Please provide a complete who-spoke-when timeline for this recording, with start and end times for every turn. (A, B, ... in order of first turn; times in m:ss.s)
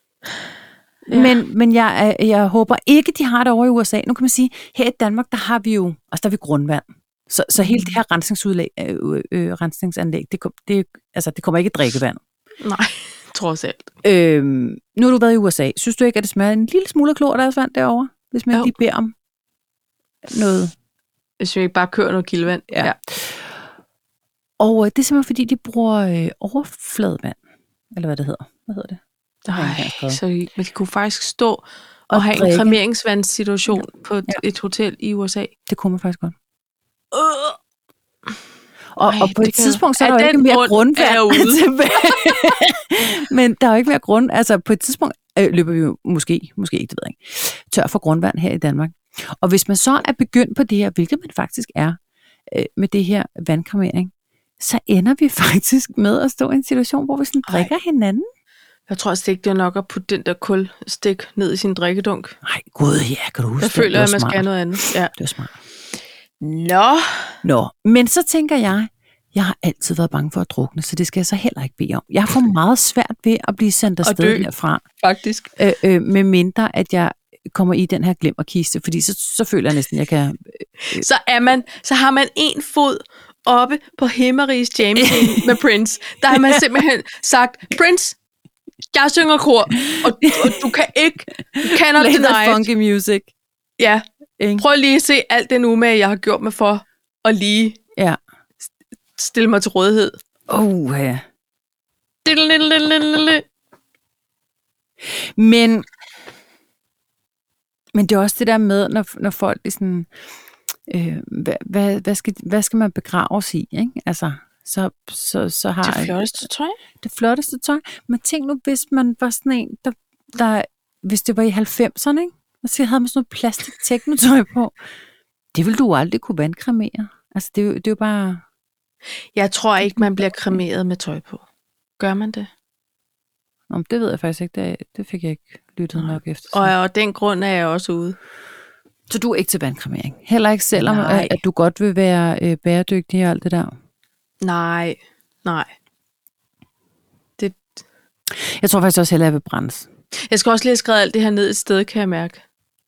0:01.1-0:01.4 A
0:01.1-0:12.2 B
0:07.6-0:08.0 A
0:12.6-0:13.9 A
0:14.0-0:19.1 B
0:20.2-0:20.7 B
0:21.4-0:23.0 A
0:22.7-0:23.6 B
0:24.6-0:27.4 B
0:27.9-0:29.0 B
0:29.4-0:35.5 A
0:29.5-0:30.2 B
0:32.1-0:32.8 B
0:33.7-0:34.4 B
0:35.7-0:36.3 B
0:37.1-0:37.6 A
0:39.0-0:58.3 B
0:39.1-0:42.4 A
0:57.4-0:57.7 A
0:58.9-1:02.3 A
1:02.4-1:04.4 B
1:03.6-1:05.1 A
1:05.1-1:05.5 B
1:06.4-1:07.4 A
1:07.4-1:14.8 B
1:14.0-1:14.5 A
1:15.0-1:15.5 A
1:15.6-1:21.0 B
1:20.8-1:28.2 A
1:25.0-1:25.6 B
1:26.3-1:26.8 B
1:28.9-1:32.6 A
1:29.8-1:30.7 B
1:31.5-1:33.3 B
1:33.8-1:34.0 A
1:34.4-1:34.6 B
1:34.6-1:37.8 A
1:39.2-1:40.2 A
1:40.5-1:41.2 B
1:42.2-1:43.4 A
1:45.1-1:45.8 B
1:47.9-1:50.1 B
1:50.9-1:56.4 B
1:55.8-1:56.8 A
1:57.0-2:04.8 B
2:05.5-2:08.4 B
2:09.3-2:11.4 A
2:09.8-2:10.6 B
2:12.0-2:12.5 A
2:13.7-2:16.7 B
2:16.0-2:18.2 A
2:19.1-2:23.7 B
2:20.7-2:21.4 A
2:24.4-2:25.7 A
2:27.4-2:27.6 A
2:28.3-2:29.9 B
2:30.3-2:32.4 A